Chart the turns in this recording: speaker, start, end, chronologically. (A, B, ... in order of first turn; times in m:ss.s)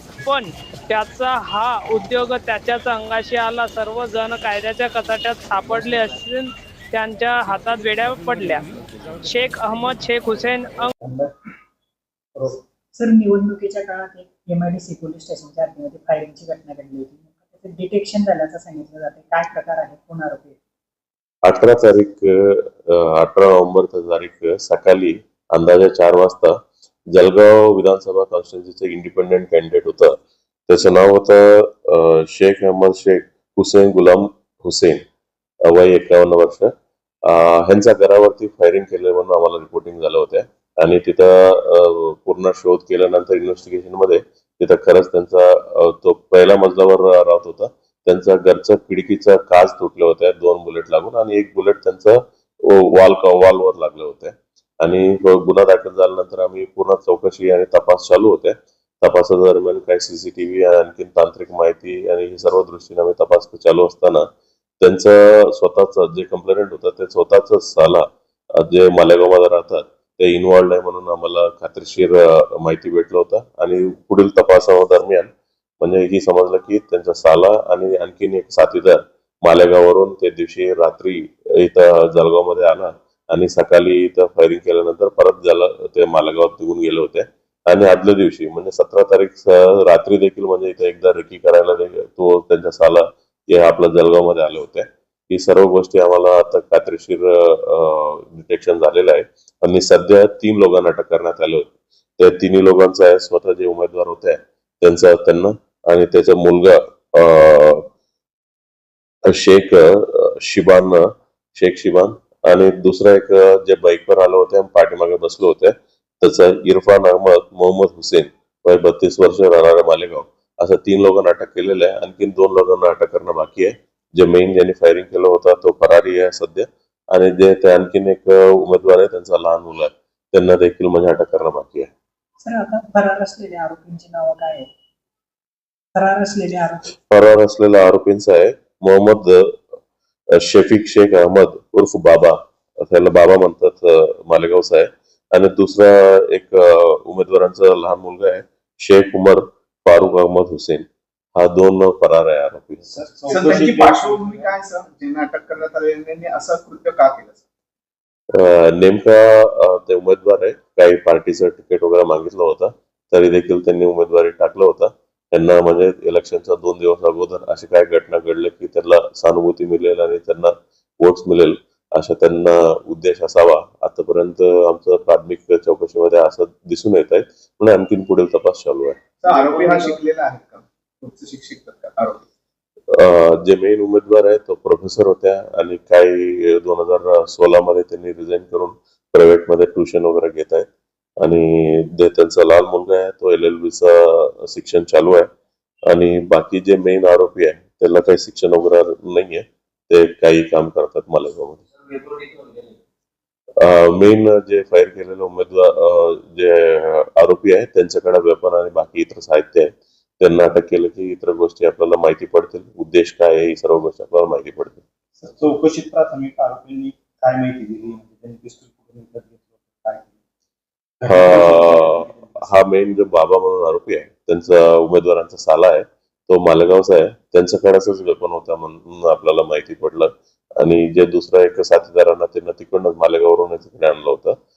0:00.2-0:08.6 A
0:09.2-0:10.9 A
0:11.0-0:11.3 B
0:12.9-0:20.6 C
0:21.4-0:26.6 D
0:27.1-0:30.2 D
0:30.7-0:35.0 D
0:35.7-0:36.7 D
0:37.2-1:04.3 D
1:04.8-1:47.9 D
1:49.2-2:11.9 D
2:12.4-2:14.7 C
2:15.9-2:17.0 C
2:17.1-2:19.6 D
2:20.3-2:32.8 D
2:32.8-2:34.5 B
2:33.3-2:37.4 E
2:38.3-2:59.0 D
2:59.2-3:02.2 E
2:59.3-2:59.9 B
3:02.9-3:10.7 D
3:11.2-3:15.3 D
3:15.9-3:21.6 D
3:23.6-3:34.8 D
3:35.2-3:40.2 B
3:41.0-3:42.5 B
3:41.1-3:54.4 D